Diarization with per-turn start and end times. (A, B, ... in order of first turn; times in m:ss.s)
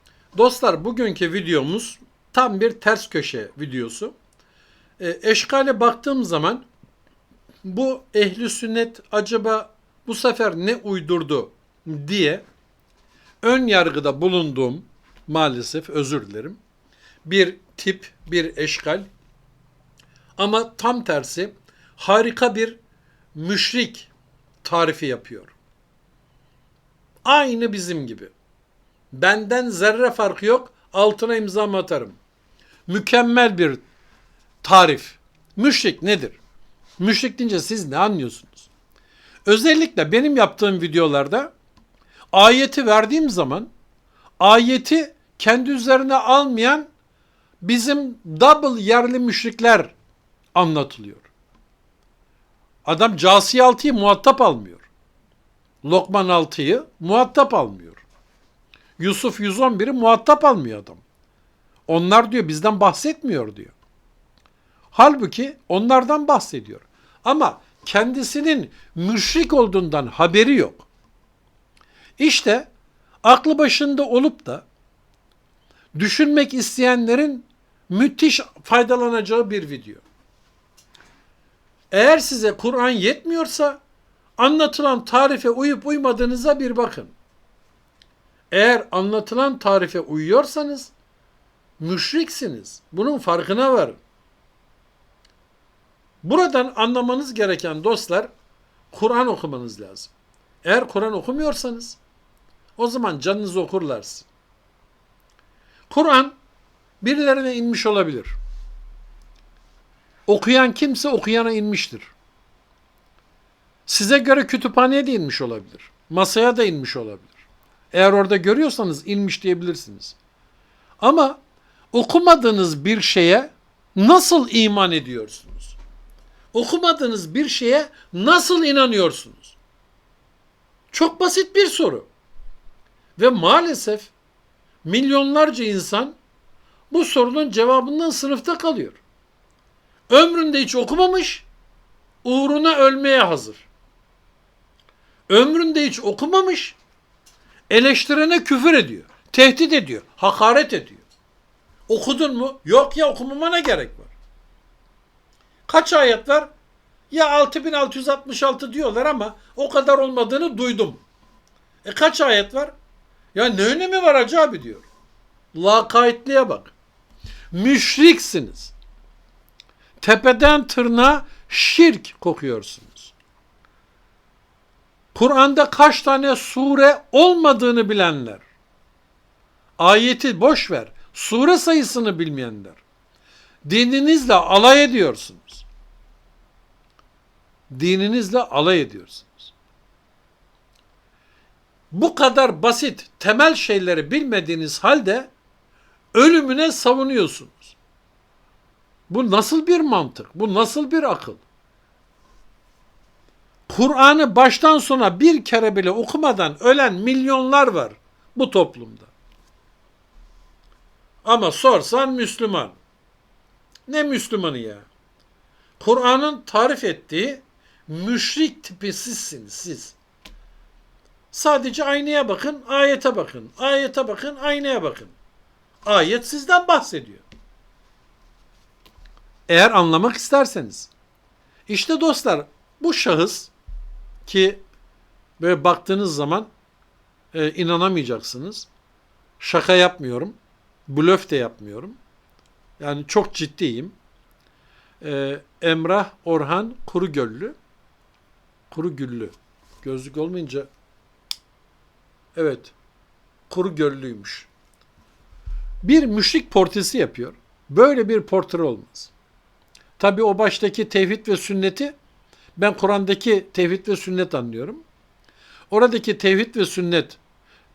0:00.4-0:04.1 A
0:05.0-0:06.7 A
0:07.6-0:12.4 A
0:13.4-0:16.6 A
0:17.2-0:19.1 A
0:20.4-0:22.8 A
0:23.4-0:24.1 A
0:24.6-0:25.5 A
0:27.2-0:28.3 A
0:29.1-0:32.2 A
0:32.9-0:33.8 A
0:34.6-0:36.4 A
0:37.0-0:38.7 A
0:39.5-0:41.5 A
0:42.3-0:43.7 A
0:44.4-0:46.9 A
0:47.6-0:49.9 A
0:50.5-0:51.3 A
0:52.8-0:54.9 A
0:55.8-0:58.0 A
0:59.0-1:01.0 A
1:01.9-1:03.8 A
1:04.9-1:10.9 A
1:12.2-1:12.7 A
1:13.2-1:14.7 A
1:16.0-1:20.0 A
1:21.9-1:23.8 A
1:24.4-1:27.1 A
1:28.5-1:30.9 A
1:31.8-1:34.0 A
1:36.2-1:38.3 A
1:38.9-1:40.1 A
1:40.6-1:42.0 A
1:42.8-1:44.3 A
1:45.9-1:46.4 A
1:47.0-1:48.3 A
1:50.3-1:52.1 A
1:53.9-1:57.3 A
1:57.9-2:00.2 A
2:01.0-2:01.4 A
2:01.9-2:05.8 A
2:06.5-2:09.6 A
2:10.9-2:12.1 A
2:13.2-2:14.1 A
2:14.8-2:16.2 A
2:16.9-2:19.0 A
2:20.1-2:21.5 A
2:22.2-2:23.7 A
2:25.3-2:26.8 A
2:27.7-2:31.0 A
2:31.9-2:34.1 A
2:35.7-2:36.5 A
2:37.1-2:41.0 A
2:41.8-2:42.7 A
2:43.3-2:44.9 A
2:45.5-2:46.7 A
2:47.5-2:48.7 A
2:50.0-2:53.1 A
2:55.1-2:58.4 A
2:59.8-3:02.8 A
3:03.6-3:05.6 A
3:07.7-3:09.5 A
3:11.9-3:15.3 A
3:16.1-3:17.8 A
3:19.1-3:21.4 A
3:23.7-3:29.1 A
3:31.2-3:32.8 A
3:33.9-3:34.9 A
3:35.8-3:40.0 A
3:41.3-3:45.1 A
3:45.8-3:47.2 A
3:49.5-3:50.9 A
3:51.7-3:53.5 A
3:54.3-3:54.6 A
3:55.4-3:56.5 A
3:57.3-3:58.7 A
3:59.4-4:00.4 A
4:00.9-4:02.0 A
4:02.8-4:04.0 A
4:05.0-4:07.6 A
4:08.7-4:10.7 A
4:12.4-4:12.7 A
4:13.5-4:14.5 A
4:15.8-4:19.1 A
4:20.0-4:21.9 A
4:22.6-4:24.8 A
4:25.7-4:27.2 A